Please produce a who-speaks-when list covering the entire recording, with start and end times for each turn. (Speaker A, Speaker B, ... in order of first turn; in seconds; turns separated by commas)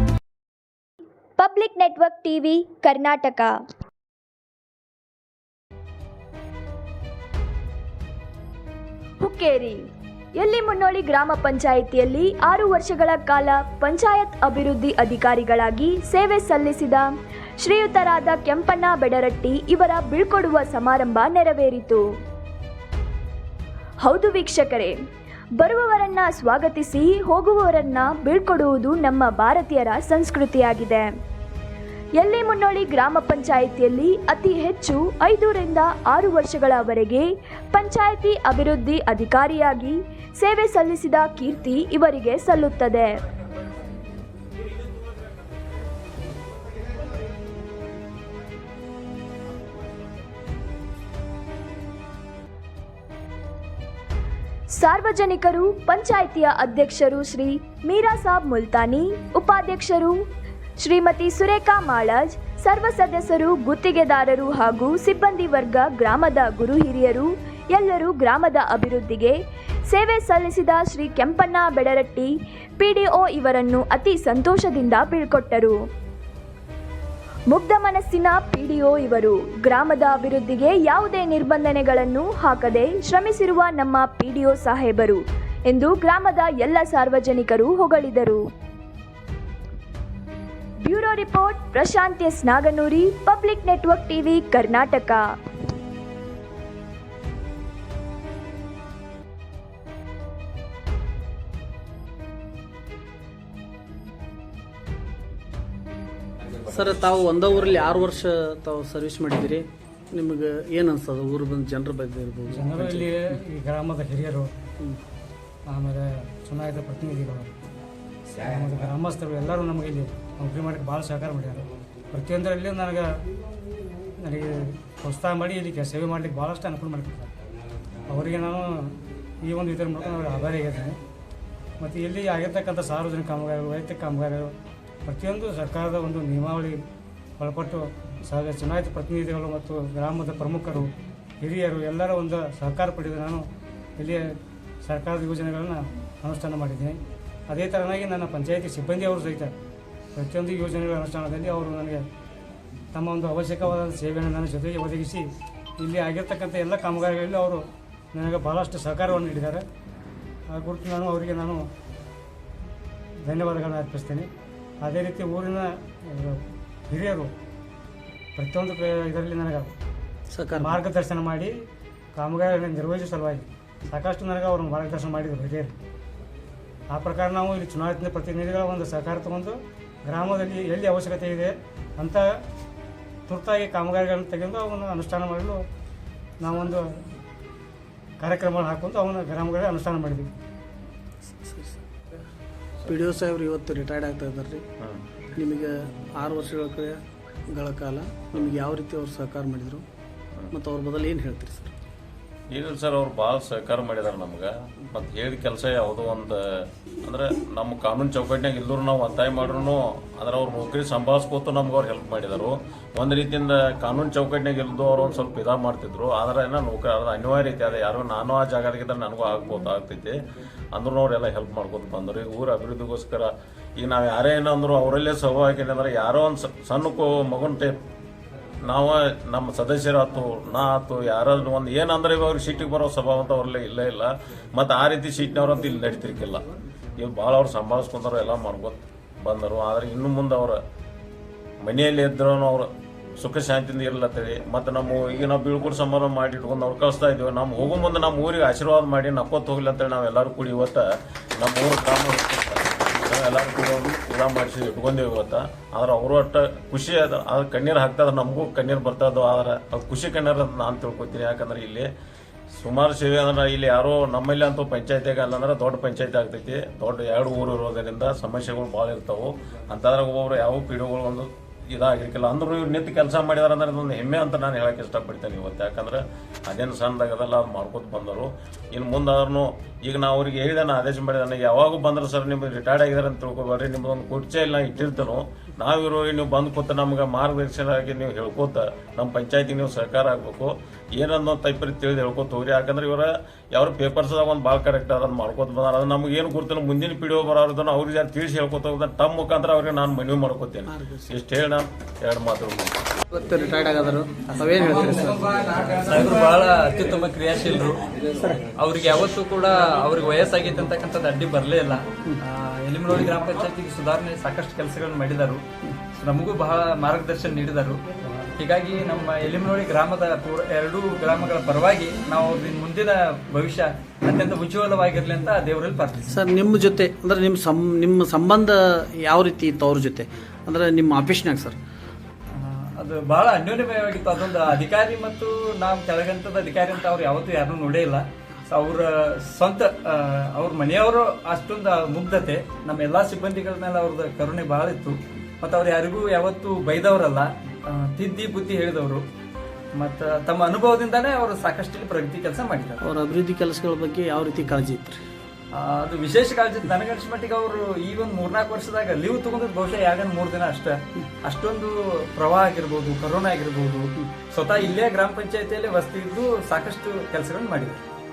Speaker A: 1.4-3.5, Speaker A: 9.2-9.8, Speaker A: 10.4-17.1, Speaker A: 17.6-22.0, Speaker A: 24.0-24.9, Speaker A: 25.6-31.1, Speaker A: 32.2-43.2, Speaker A: 54.8-60.2, Speaker A: 60.8-69.4, Speaker A: 69.9-75.8, Speaker A: 77.5-88.4, Speaker A: 90.8-95.2, Speaker B: 106.7-113.1, Speaker C: 112.5-114.5, Speaker C: 115.7-117.5, Speaker C: 118.4-123.1, Speaker C: 124.2-127.3, Speaker C: 128.1-131.0, Speaker C: 131.8-134.5, Speaker C: 135.1-136.8, Speaker C: 137.4-140.9, Speaker C: 141.4-143.5, Speaker C: 144.0-149.5, Speaker C: 150.2-152.1, Speaker C: 152.9-155.3, Speaker C: 155.8-159.7, Speaker C: 160.5-161.7, Speaker C: 163.2-164.3, Speaker C: 164.8-167.3, Speaker C: 168.4-169.7, Speaker B: 170.3-170.8, Speaker C: 170.6-171.5, Speaker C: 172.2-175.7, Speaker C: 176.9-182.3, Speaker C: 183.3-185.6, Speaker C: 186.4-187.0, Speaker C: 188.2-190.3, Speaker B: 191.3-191.8, Speaker B: 192.9-194.6, Speaker B: 195.3-197.0, Speaker B: 197.5-199.8, Speaker B: 200.5-201.7, Speaker D: 202.5-206.4, Speaker D: 207.1-220.2, Speaker D: 220.8-227.7, Speaker D: 228.7-236.4, Speaker D: 237.0-240.6, Speaker D: 241.6-250.8, Speaker D: 251.4-261.9, Speaker D: 262.6-302.8, Speaker B: 300.7-301.1, Speaker B: 303.1-305.6, Speaker E: 305.6-307.8, Speaker B: 308.2-308.4, Speaker E: 308.6-315.4, Speaker E: 316.0-317.8, Speaker E: 318.4-326.1, Speaker B: 326.1-331.6, Speaker E: 332.4-349.0, Speaker E: 349.8-352.8, Speaker B: 352.8-355.0, Speaker E: 355.5-367.8